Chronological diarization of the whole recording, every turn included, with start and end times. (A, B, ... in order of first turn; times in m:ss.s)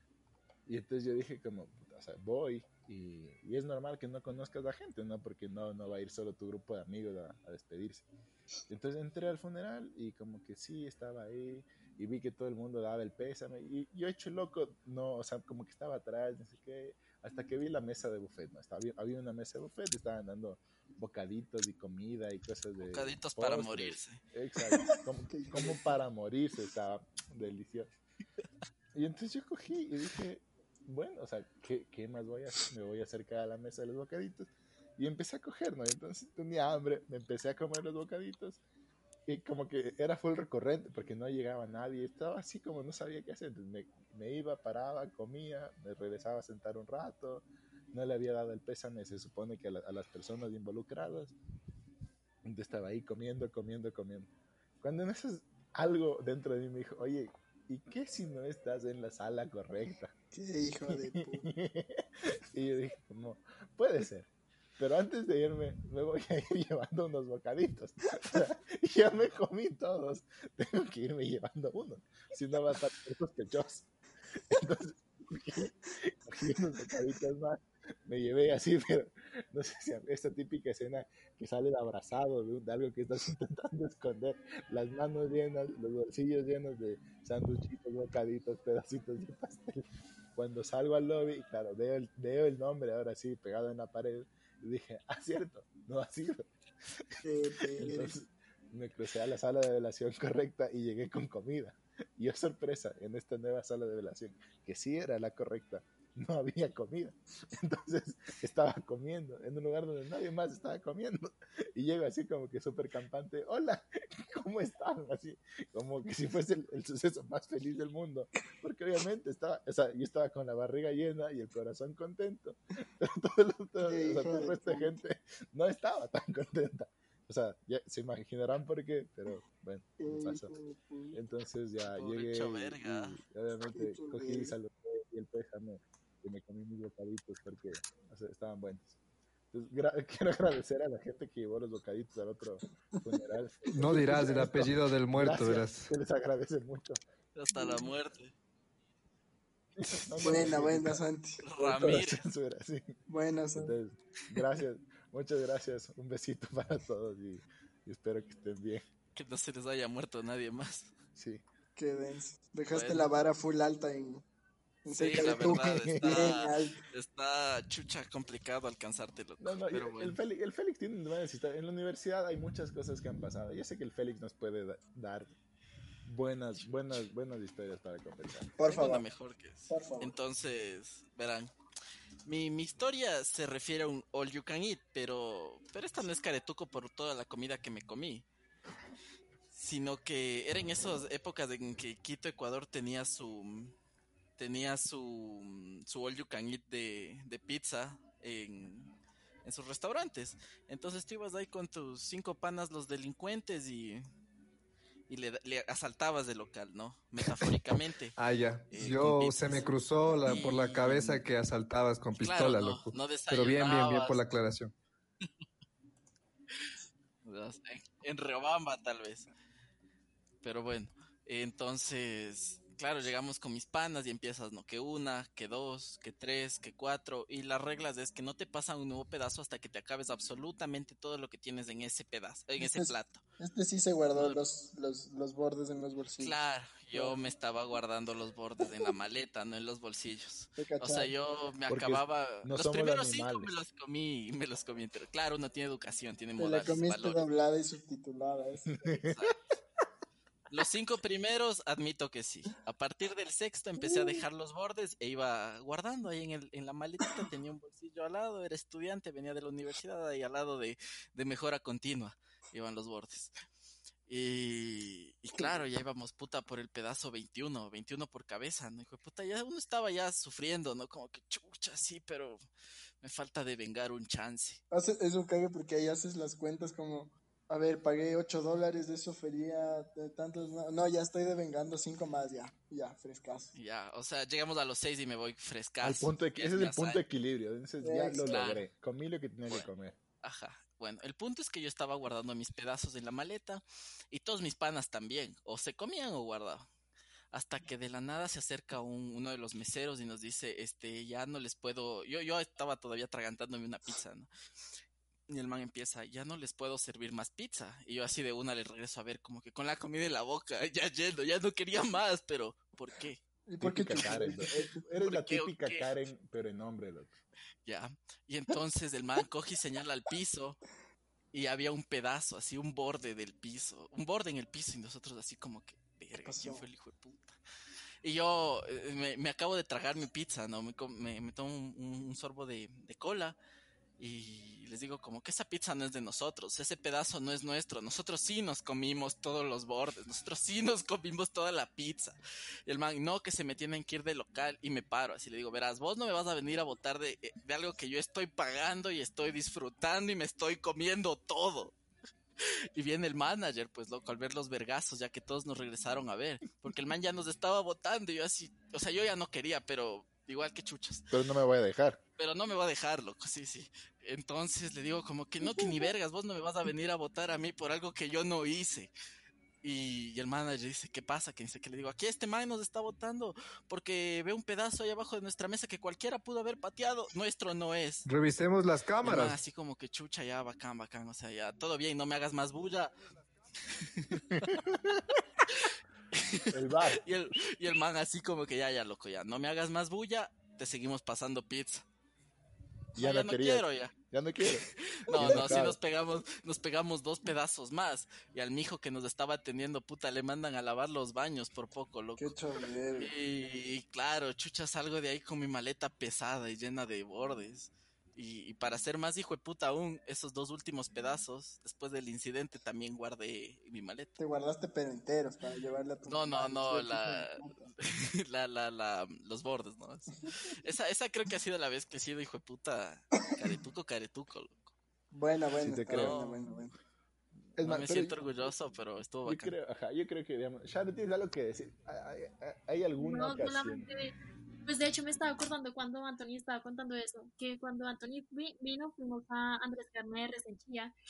0:00.7-0:08.1 A
0:08.7-0:27.9 A
0:22.8-0:24.2 B
0:24.7-0:26.0 C
0:29.0-0:38.6 A
0:39.3-0:51.4 A
0:52.4-1:00.1 A
1:00.3-1:01.5 C
1:00.9-1:36.5 A
1:37.2-1:38.2 C
1:37.7-2:10.6 A
2:03.8-2:05.0 C
2:10.0-2:11.2 C
2:11.1-2:19.0 A
2:11.9-2:13.2 B
2:13.7-2:14.6 C
2:19.5-2:27.0 A
2:23.7-2:25.9 D
2:23.8-2:24.7 C
2:27.4-2:28.3 B
2:27.5-2:27.8 C
2:29.8-2:31.0 A
2:30.2-2:31.4 C
2:31.4-2:32.2 B
2:31.6-2:33.0 A
2:33.1-2:33.8 C
2:33.6-2:38.9 A
2:39.2-2:40.9 B
2:41.2-2:41.4 A
2:41.8-2:44.2 C
2:42.7-2:43.1 B
2:44.8-2:46.8 C
2:45.0-2:50.2 B
2:45.5-2:46.4 A
2:49.4-2:55.3 A
2:56.0-2:58.5 A
2:58.6-2:59.1 C
2:58.6-3:01.5 B
2:59.7-3:00.1 C
3:02.3-3:08.2 B
3:09.5-3:13.7 B
3:14.4-3:24.0 B
3:25.1-3:28.2 B
3:28.2-3:34.7 D
3:28.7-3:31.2 B
3:32.2-3:34.3 B
3:37.2-3:39.3 B
3:40.4-3:53.2 B
3:52.6-3:56.4 C
3:54.2-3:54.4 B
3:56.2-4:07.3 B
3:56.9-3:57.2 C
3:58.7-3:58.9 C
4:00.6-4:01.1 C
4:01.7-4:03.5 A
4:06.4-4:09.0 C
4:08.8-4:09.3 A
4:09.1-4:09.4 B
4:10.5-4:23.3 B
4:13.8-4:14.2 C
4:24.1-4:32.4 B
4:25.4-4:25.6 C
4:33.0-4:34.6 B
4:34.7-4:43.5 C
4:43.5-4:47.0 B
4:45.8-4:50.0 A
4:47.8-4:48.4 C
4:48.2-4:48.6 B
4:50.2-4:56.7 B
4:57.3-5:04.3 B
5:05.3-5:13.2 B
5:13.5-5:14.8 C
5:13.6-5:17.1 A
5:15.0-5:15.9 B
5:17.6-5:20.6 B
5:21.3-5:27.4 B
5:26.2-5:26.7 C
5:28.0-5:33.4 B
5:34.0-5:51.8 B
5:52.4-6:01.0 B
6:01.1-6:02.0 A
6:02.2-6:08.9 B
6:09.6-6:18.1 B
6:18.1-6:19.4 D
6:19.0-6:22.9 B
6:23.7-6:24.7 B
6:24.7-6:25.0 A
6:25.4-6:31.8 B
6:26.5-6:27.0 A
6:33.0-6:42.4 B
6:33.0-6:35.8 A
6:35.1-6:35.6 C
6:42.2-6:43.1 C
6:43.0-6:54.2 B
6:54.2-6:57.7 C
6:56.1-7:04.7 B
7:05.1-7:06.7 C
7:05.6-7:06.2 A
7:05.9-7:06.5 B
7:07.6-7:08.2 A
7:07.6-7:09.6 B
7:09.2-7:13.9 A
7:13.0-7:21.0 E